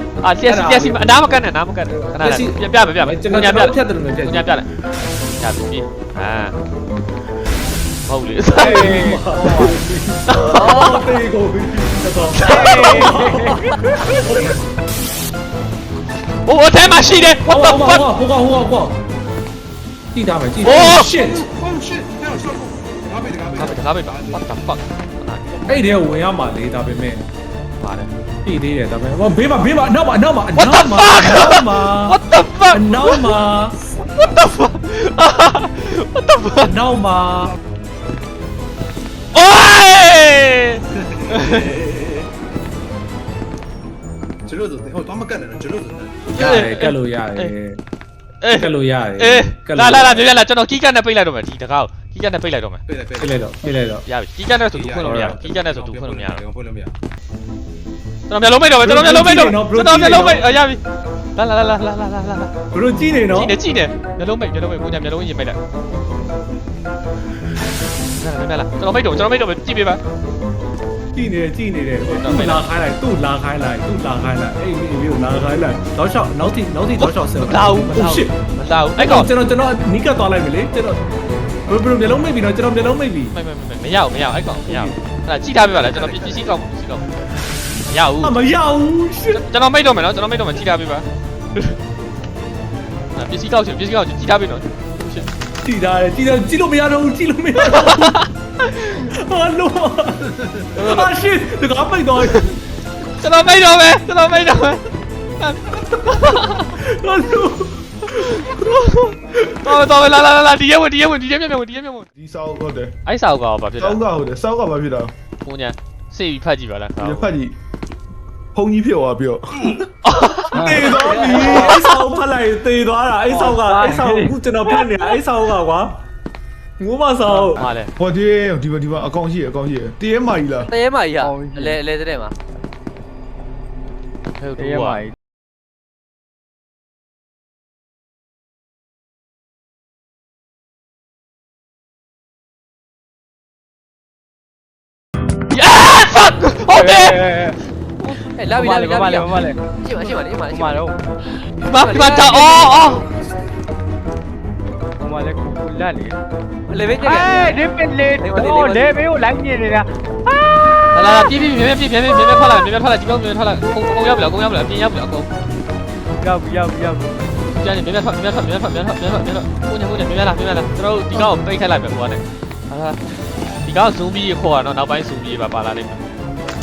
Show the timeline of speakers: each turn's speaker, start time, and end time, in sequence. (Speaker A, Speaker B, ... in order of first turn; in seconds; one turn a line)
Speaker A: 0.2-4.7
Speaker B: 0.5-1.2
Speaker B: 2.2-4.5
Speaker A: 5.4-6.5
Speaker A: 8.0-9.7
Speaker B: 8.5-14.6
Speaker C: 8.6-9.7
Speaker A: 10.3-11.1
Speaker A: 12.3-14.2
Speaker C: 12.5-13.6
Speaker A: 16.4-18.1
Speaker B: 17.5-19.0
Speaker B: 20.1-21.5
Speaker A: 20.6-21.1
Speaker D: 21.4-24.4
Speaker A: 23.5-25.4
Speaker B: 25.6-27.3
Speaker A: 27.8-28.1
Speaker B: 28.4-32.2
Speaker A: 30.5-33.4
Speaker B: 32.7-33.8
Speaker A: 34.0-36.8
Speaker B: 36.6-37.5
Speaker A: 39.3-41.7
Speaker D: 41.8-42.2
Speaker D: 44.5-46.2
Speaker B: 46.3-47.8
Speaker A: 46.3-47.5
Speaker A: 48.4-52.8
Speaker B: 48.5-50.4
Speaker D: 52.9-53.4
Speaker B: 53.2-54.0
Speaker A: 54.0-56.4
Speaker D: 54.7-56.9
Speaker B: 55.0-55.4
Speaker A: 58.3-60.8
Speaker B: 58.8-60.5
Speaker A: 61.4-62.5
Speaker B: 62.7-63.6
Speaker A: 63.3-65.6
Speaker A: 68.1-70.0
Speaker B: 71.1-78.3
Speaker A: 72.0-72.7
Speaker A: 77.0-79.3
Speaker B: 79.0-81.0
Speaker B: 81.7-83.3
Speaker A: 83.3-87.1
Speaker B: 84.7-85.0
Speaker E: 86.1-86.4
Speaker A: 87.8-88.4
Speaker B: 88.2-89.4
Speaker A: 89.3-91.8
Speaker A: 93.1-95.3
Speaker B: 95.6-98.3
Speaker A: 97.7-99.1
Speaker B: 98.9-102.5
Speaker A: 100.7-101.1
Speaker A: 102.2-102.5
Speaker A: 103.1-106.7
Speaker B: 106.8-108.5
Speaker A: 108.1-112.1
Speaker F: 112.2-113.0
Speaker A: 113.0-114.0
Speaker F: 113.8-115.1
Speaker A: 115.4-117.3
Speaker F: 117.0-117.5
Speaker F: 118.5-119.8
Speaker A: 120.0-121.7
Speaker B: 120.5-126.0
Speaker C: 120.5-121.3
Speaker E: 121.0-121.8
Speaker C: 123.3-125.0
Speaker B: 126.8-127.6
Speaker A: 127.5-127.9
Speaker F: 128.0-130.7
Speaker E: 130.7-132.3
Speaker C: 131.2-131.8
Speaker A: 134.4-135.0
Speaker C: 134.6-135.1
Speaker A: 145.5-147.3
Speaker C: 146.7-147.6
Speaker E: 148.1-150.8
Speaker C: 148.4-149.6
Speaker C: 150.5-151.0
Speaker A: 151.6-153.1
Speaker E: 151.7-153.0
Speaker C: 155.0-156.2
Speaker E: 156.7-157.6
Speaker C: 157.0-161.0
Speaker E: 158.2-158.9
Speaker A: 160.9-165.3
Speaker C: 166.2-167.2
Speaker A: 167.5-173.0
Speaker A: 173.6-176.0